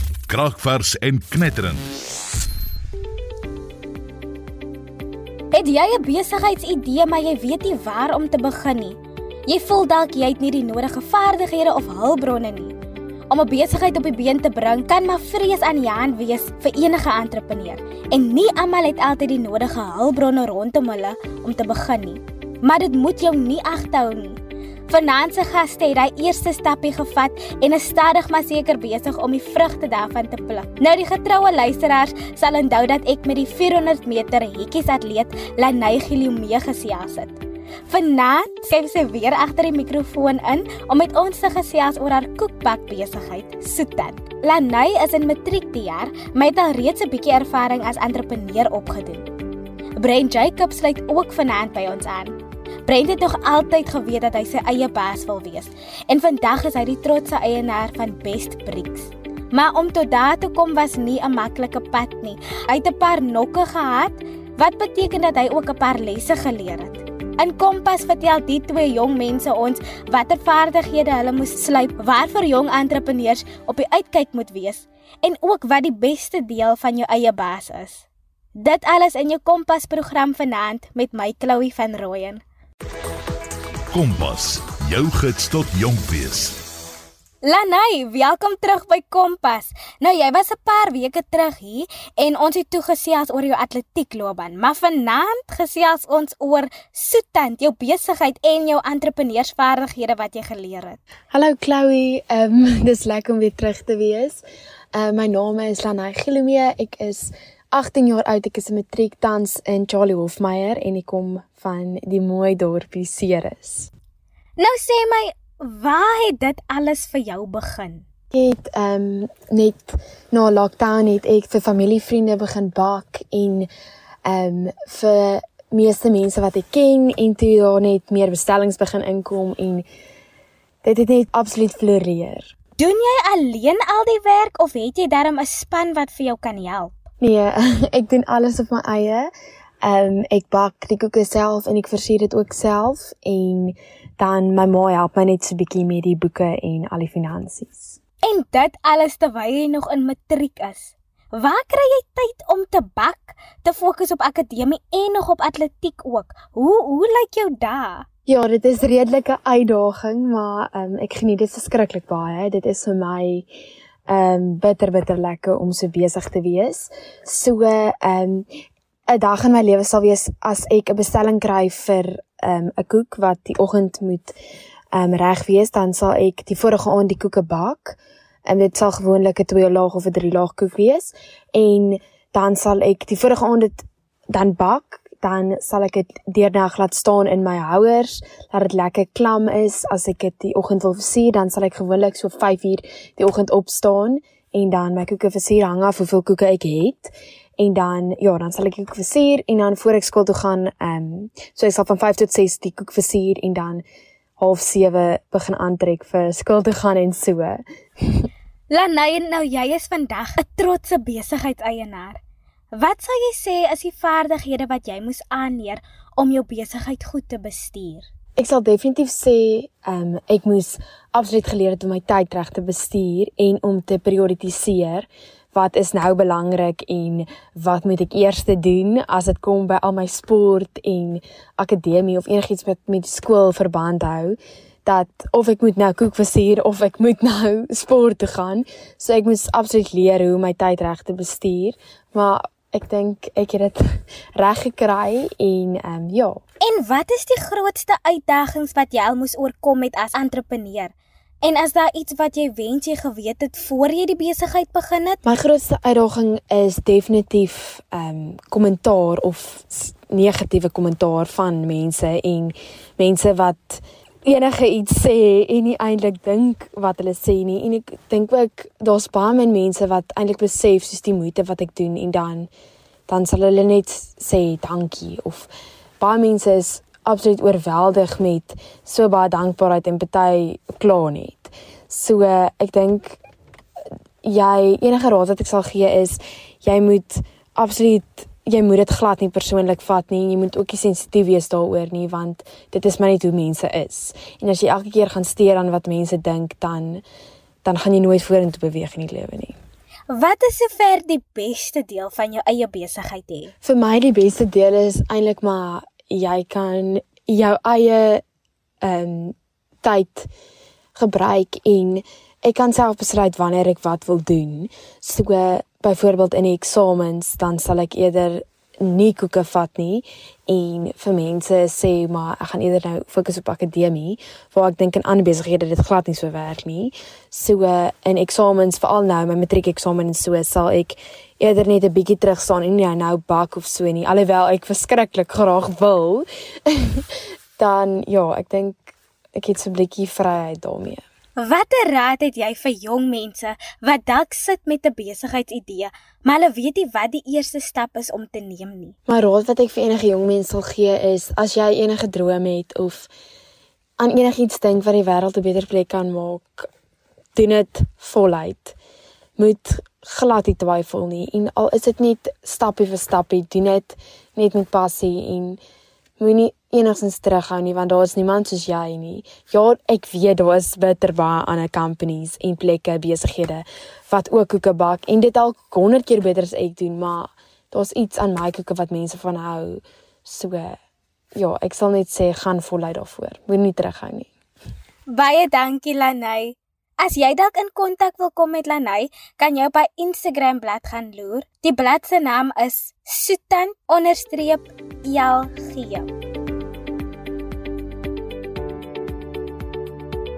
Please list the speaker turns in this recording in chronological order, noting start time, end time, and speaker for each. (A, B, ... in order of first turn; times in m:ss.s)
0:00.3-0:01.9 A
0:05.5-0:12.7 B
0:13.3-0:49.3 B
0:50.0-1:22.4 B
1:23.9-1:26.6 A
1:27.4-1:41.0 B
1:41.3-1:44.4 C
1:44.9-1:53.9 C
1:54.6-1:58.0 B
1:58.3-2:03.7 C
2:04.3-2:09.8 C
2:10.8-2:12.5 C
2:12.8-2:17.0 B
2:17.2-2:19.3 C
2:19.8-2:28.0 C
2:28.2-2:38.1 B
2:38.3-2:43.5 C
2:44.1-2:48.5 C
2:49.1-2:54.4 C
2:55.0-3:23.8 C
3:24.4-3:27.6 C
3:28.7-3:32.2 B
3:32.7-3:38.1 B
3:38.4-4:03.8 C
4:04.4-4:06.4 C
4:06.6-4:15.2 B
4:15.2-4:32.5 C
4:33.1-4:35.5 C
4:36.0-4:43.2 C
4:44.2-4:57.0 C
4:57.6-4:59.6 C
5:00.1-5:03.6 B
5:03.6-5:08.2 C
5:08.8-5:10.3 C
5:11.0-5:37.0 C
5:37.6-5:41.0 C
5:41.4-5:49.0 B
5:49.1-5:53.1 C
5:54.0-5:56.7 C
5:57.4-5:58.8 C
5:59.4-6:05.6 C
6:06.2-6:20.8 C
6:21.4-6:24.3 C
6:25.1-6:36.1 B